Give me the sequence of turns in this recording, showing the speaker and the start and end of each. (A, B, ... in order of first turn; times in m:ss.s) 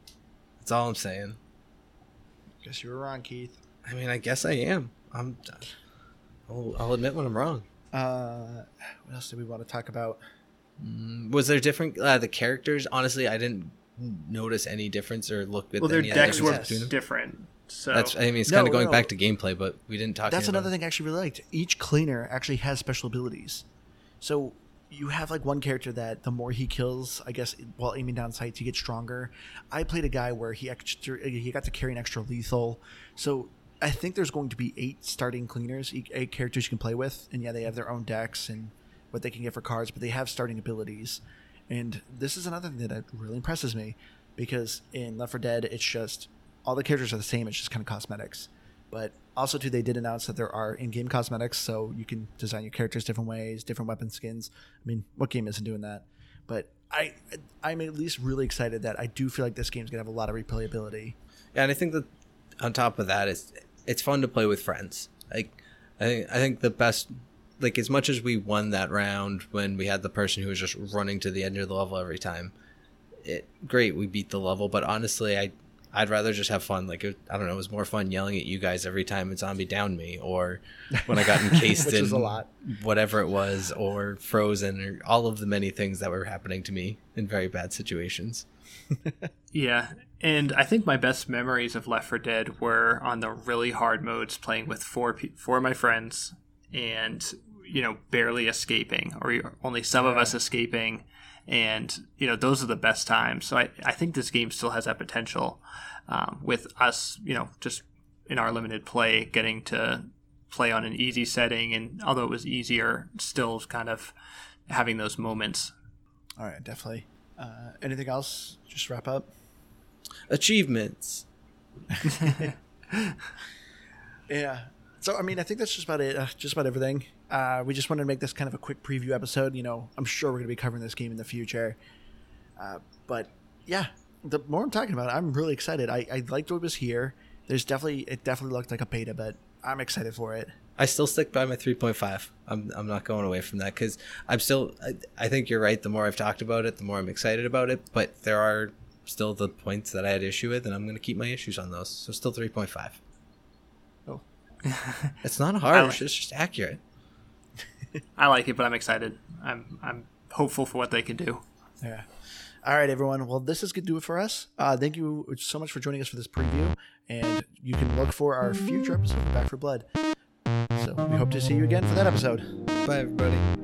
0:00.6-0:01.4 A
0:02.6-0:03.6 B
0:03.8-0:05.7 A
0:06.5-0:07.7 A
0:07.9-0:10.2 B
0:10.8-0:16.9 A
0:15.8-0:18.2 C
0:16.1-0:16.9 B
0:17.9-0:20.7 A
0:18.5-0:19.1 B
0:20.3-0:23.7 B
0:24.2-1:01.2 B
1:01.6-1:02.1 A
1:02.6-1:12.5 A
1:13.2-1:28.5 A
1:21.7-1:22.5 B
1:29.5-1:54.2 C
1:40.0-1:40.4 B
1:54.7-1:55.7 C
1:56.4-1:59.3 B
2:00.3-2:01.3 A
2:02.0-2:02.3 B
2:02.2-2:03.2 C
2:04.3-2:11.8 B
2:12.6-2:20.5 B
2:20.8-2:33.0 A
2:34.7-2:35.2 C
2:35.2-2:36.8 A
2:35.7-2:36.0 C
2:38.2-2:41.4 C
2:41.8-2:42.1 B
2:42.6-2:49.9 B
2:50.8-2:52.6 B
2:52.8-2:53.5 A